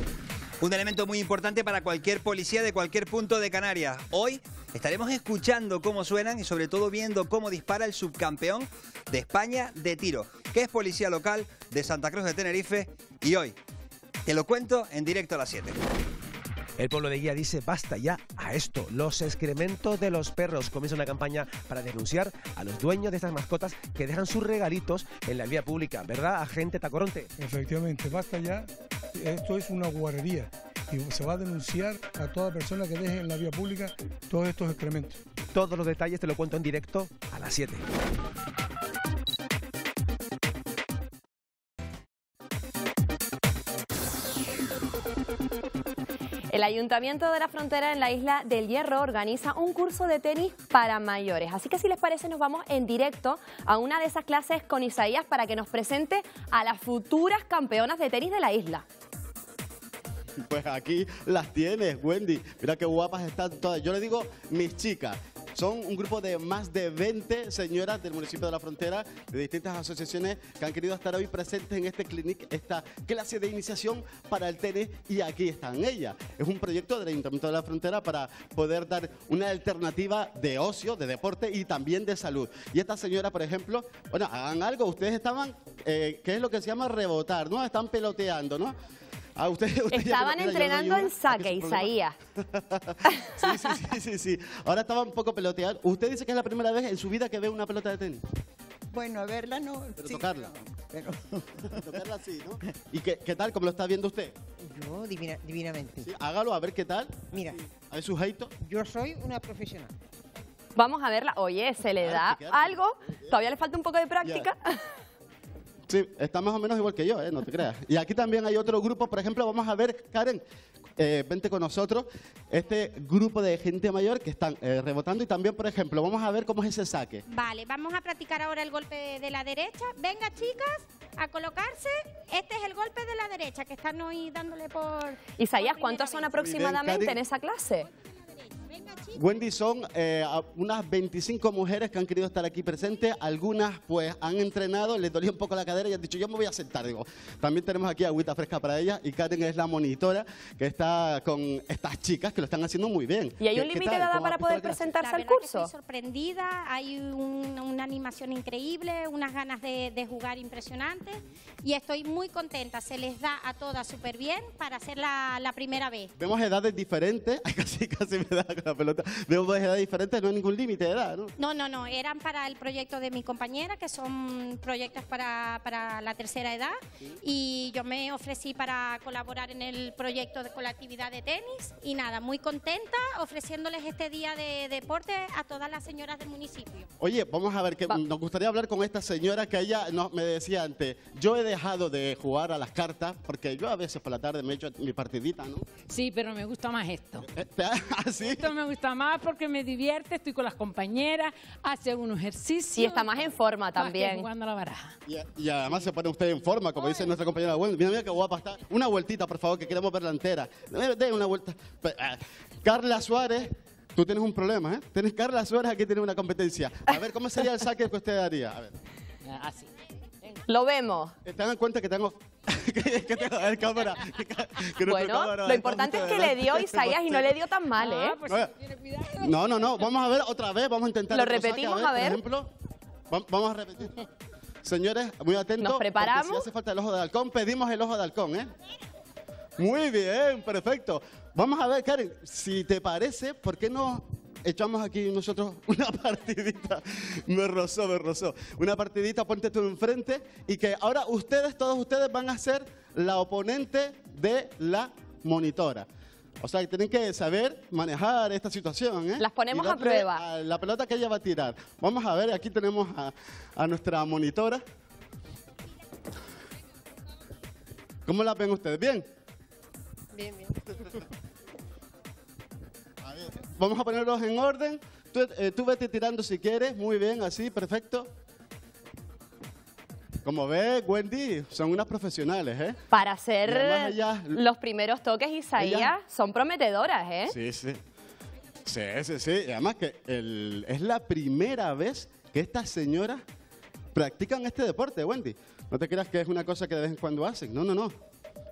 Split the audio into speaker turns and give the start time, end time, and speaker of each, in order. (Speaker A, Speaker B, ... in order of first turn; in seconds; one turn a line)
Speaker A: 0.6-13.5
Speaker A: 14.2-15.8
Speaker B: 16.8-27.3
Speaker C: 27.4-35.2
Speaker B: 35.5-37.8
Speaker D: 46.5-58.8
Speaker E: 60.5-88.7
Speaker E: 89.4-98.2
Speaker D: 89.9-92.2
Speaker F: 98.9-101.9
Speaker E: 100.0-100.5
Speaker E: 101.7-104.3
Speaker F: 104.6-106.1
Speaker E: 106.0-108.5
Speaker F: 107.3-107.6
Speaker F: 108.6-109.9
Speaker D: 110.8-114.7
Speaker E: 112.0-113.3
Speaker E: 114.2-114.5
Speaker E: 115.9-120.4
Speaker E: 121.0-127.2
Speaker G: 127.3-136.4
Speaker D: 135.4-137.9
Speaker E: 136.3-137.2
Speaker E: 139.1-154.8
Speaker D: 153.4-155.7
Speaker G: 154.9-166.1
Speaker E: 166.2-171.3
Speaker G: 171.4-186.9
Speaker E: 187.0-195.6
Speaker H: 195.9-197.3
Speaker E: 197.3-198.5
Speaker H: 198.2-204.9
Speaker D: 202.7-204.3
Speaker E: 205.1-218.7
Speaker D: 220.5-221.1
Speaker E: 221.2-227.4
Speaker D: 224.8-228.2
Speaker E: 228.2-228.5
Speaker E: 229.2-232.5
Speaker D: 231.1-232.2
Speaker E: 233.1-234.0
Speaker E: 234.6-238.5
Speaker D: 235.6-236.5
Speaker E: 239.6-255.8
Speaker E: 256.4-264.6
Speaker D: 259.2-260.2
Speaker E: 268.1-269.0
Speaker E: 273.0-278.1
Speaker E: 280.2-282.8
Speaker D: 282.9-287.3
Speaker E: 283.4-284.4
Speaker E: 285.6-285.9
Speaker E: 287.3-287.8
Speaker E: 288.6-293.2
Speaker E: 293.9-297.9